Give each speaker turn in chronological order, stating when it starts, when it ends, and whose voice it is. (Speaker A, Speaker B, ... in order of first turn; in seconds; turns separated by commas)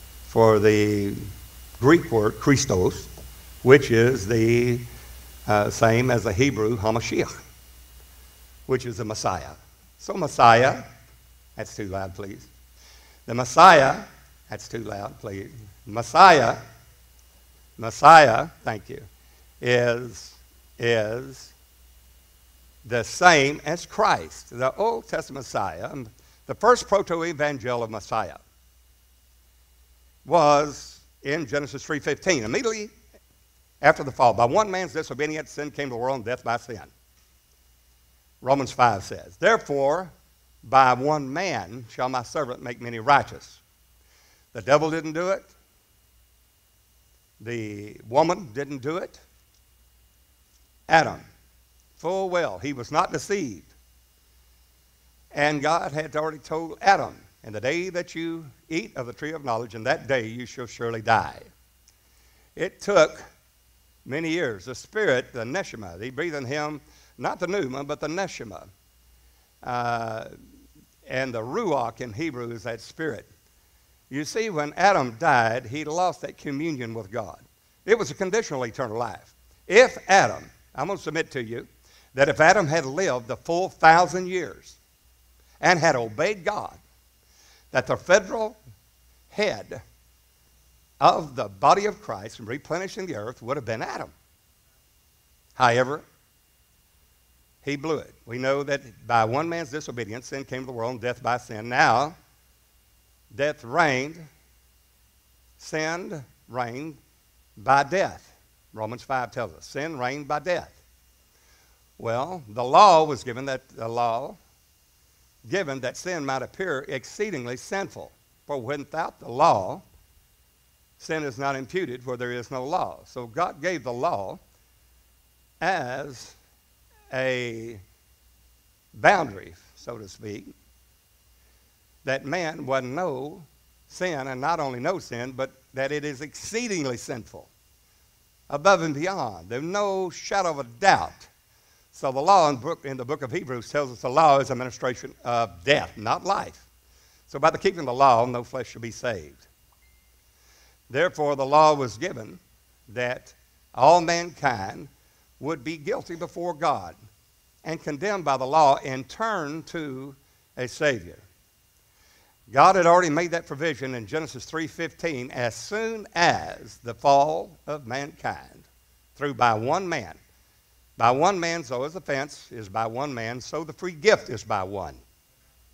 Speaker A: 0.3-1.2, Speaker A: 1.8-3.1, Speaker A: 3.6-4.8, Speaker A: 5.5-7.4, Speaker A: 8.7-10.8, Speaker A: 11.6-12.5, Speaker A: 13.3-16.6, Speaker A: 17.8-19.1, Speaker A: 19.6-21.5, Speaker A: 22.8-28.4, Speaker A: 30.2-32.9, Speaker A: 33.8-36.9, Speaker A: 38.4-40.1, Speaker A: 40.6-43.6, Speaker A: 44.5-45.5, Speaker A: 47.4-49.2, Speaker A: 50.9-51.2, Speaker A: 52.0-53.7, Speaker A: 55.3-61.5, Speaker A: 62.5-63.2, Speaker A: 64.0-68.7, Speaker A: 69.6-70.3, Speaker A: 71.1-73.3, Speaker A: 74.1-84.8, Speaker A: 85.6-86.8, Speaker A: 87.7-88.6, Speaker A: 89.3-89.8, Speaker A: 91.0-94.1, Speaker A: 95.6-96.0, Speaker A: 97.6-102.1, Speaker A: 103.3-104.3, Speaker A: 105.6-107.0, Speaker A: 107.6-110.8, Speaker A: 112.0-114.4, Speaker A: 115.4-119.8, Speaker A: 121.0-124.4, Speaker A: 125.6-126.4, Speaker A: 127.1-127.8, Speaker A: 128.9-130.5, Speaker A: 132.1-137.5, Speaker A: 138.5-141.3, Speaker A: 141.9-146.6, Speaker A: 147.3-149.5, Speaker A: 150.9-156.9, Speaker A: 157.6-161.2, Speaker A: 162.5-168.6, Speaker A: 169.2-170.2, Speaker A: 171.0-175.0